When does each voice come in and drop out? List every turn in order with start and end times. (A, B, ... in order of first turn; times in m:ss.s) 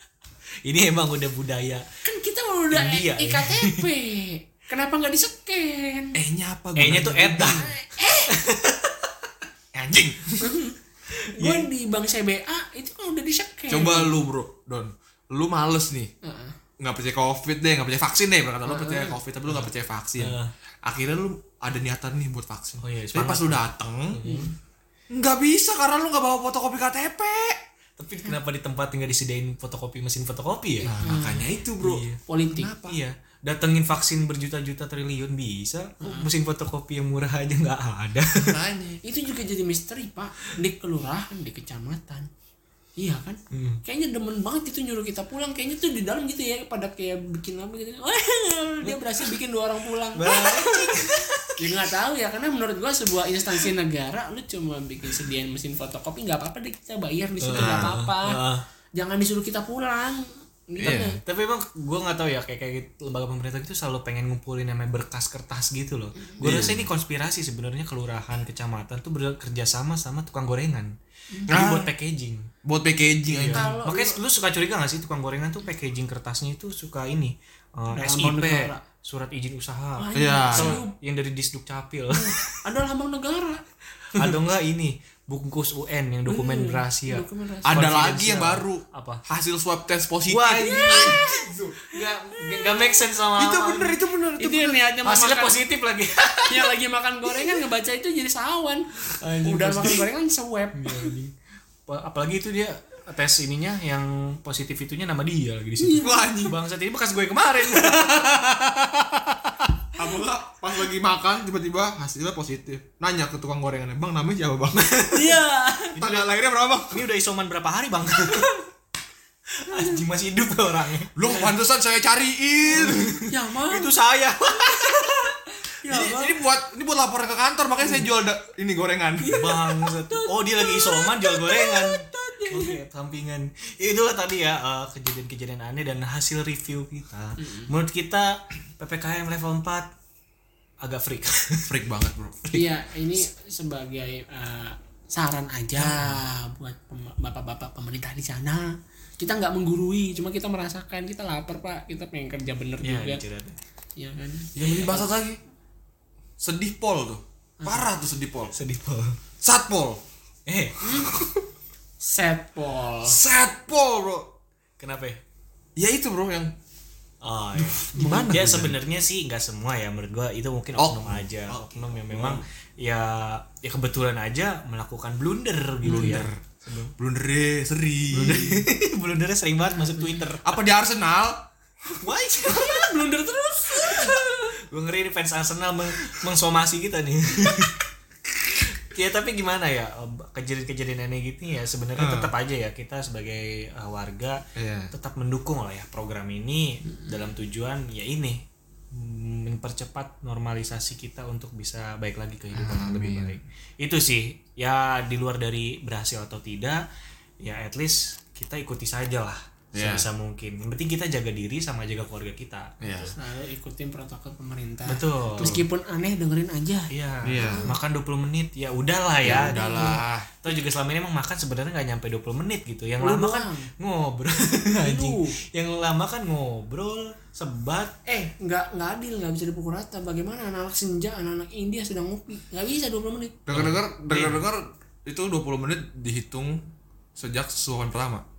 0:00.6-0:01.8 A
0:02.0-0:06.2 B
0:02.7-0:03.9 A
0:06.1-0:07.7 C
0:06.8-0:07.7 A
0:07.4-0:08.3 B
0:08.3-0:09.1 A
0:09.7-0:10.5 C
0:10.4-0:10.8 B
0:11.1-0:11.7 A
0:11.4-0:14.1 B
0:13.7-0:16.1 C
0:16.2-0:16.6 B
0:16.8-0:24.2 C
0:18.7-0:19.2 B
0:19.5-0:20.5 A
0:22.8-0:24.5 A
0:24.2-0:24.5 B
0:25.1-0:27.6 C
0:28.0-0:31.1 A
0:30.8-0:31.5 B
0:30.8-0:33.0 C
0:31.8-0:32.2 A
0:32.3-0:32.7 B
0:32.9-0:38.6 A
0:36.0-0:36.3 B
0:38.4-0:39.0 C
0:39.0-0:42.3 B
0:43.0-0:51.1 B
0:43.5-0:43.8 A
0:48.8-0:49.3 A
0:50.1-0:51.9 A
0:51.6-0:58.4 B
0:57.4-0:58.6 A
0:57.5-0:58.0 C
0:59.0-1:01.2 B
1:00.8-1:01.2 C
1:01.3-1:10.9 A
1:06.4-1:06.9 C
1:11.3-1:11.6 B
1:11.5-1:12.5 A
1:11.5-1:11.9 C
1:12.6-1:13.7 C
1:13.3-1:22.6 A
1:13.5-1:14.2 B
1:17.9-1:18.8 B
1:20.0-1:21.0 B
1:20.2-1:20.8 C
1:22.1-1:23.6 B
1:24.2-1:29.2 A
1:26.3-1:27.8 B
1:27.6-1:31.7 C
1:30.3-1:34.0 A
1:30.6-1:32.0 B
1:32.6-1:32.9 B
1:33.4-1:34.8 C
1:34.4-1:35.6 B
1:35.0-1:36.8 A
1:36.5-1:41.2 B
1:37.3-1:37.6 A
1:39.1-1:40.1 A
1:40.7-1:41.3 A
1:41.9-1:48.7 A
1:45.8-1:46.5 B
1:46.0-1:46.6 C
1:49.9-1:54.9 C
1:54.7-1:56.2 A
1:55.1-1:56.0 B
1:56.0-1:57.0 C
1:56.9-1:58.6 A
1:59.5-2:01.5 A
1:59.7-2:00.0 B
2:01.2-2:03.2 C
2:02.7-2:05.4 A
2:03.3-2:03.9 B
2:05.5-2:06.4 B
2:05.8-2:09.5 C
2:09.2-2:12.8 B
2:09.3-2:19.9 A
2:17.4-2:17.7 B
2:20.8-2:21.8 A
2:21.7-2:22.5 C
2:22.5-2:22.8 A
2:22.5-2:33.2 B
2:25.8-2:26.1 A
2:32.8-2:33.6 A
2:34.0-2:34.5 B
2:34.6-2:35.1 A
2:34.6-2:35.4 C
2:36.4-2:38.5 C
2:37.6-2:37.9 B
2:38.5-2:39.2 A
2:39.4-2:40.0 C
2:40.5-2:41.3 A
2:40.8-2:41.2 B
2:42.0-2:43.2 B
2:43.0-2:44.3 C
2:44.8-2:45.2 A
2:45.8-2:46.5 C
2:47.2-2:56.9 A
2:47.6-2:48.8 C
2:48.0-2:48.4 B
2:50.8-2:52.4 C
2:55.8-2:56.3 B
2:55.8-2:56.4 C
2:57.0-2:58.7 C
2:58.1-3:00.6 A
3:00.4-3:01.4 C
3:02.0-3:03.1 A
3:02.5-3:04.5 B
3:03.8-3:26.8 A
3:12.0-3:12.3 C
3:14.6-3:14.9 C
3:22.5-3:23.4 C
3:27.4-3:33.1 A
3:29.7-3:30.1 C
3:32.8-3:33.1 C
3:33.2-3:36.9 B
3:34.9-3:35.6 A
3:36.9-3:47.9 A
3:37.2-3:37.7 C
3:37.4-3:37.8 B
3:39.2-3:40.3 C
3:39.3-3:40.0 B
3:43.0-3:43.7 B
3:44.8-3:45.4 B
3:48.1-3:53.5 B
3:53.5-3:56.6 C
3:53.5-3:54.4 A
3:57.2-3:58.2 C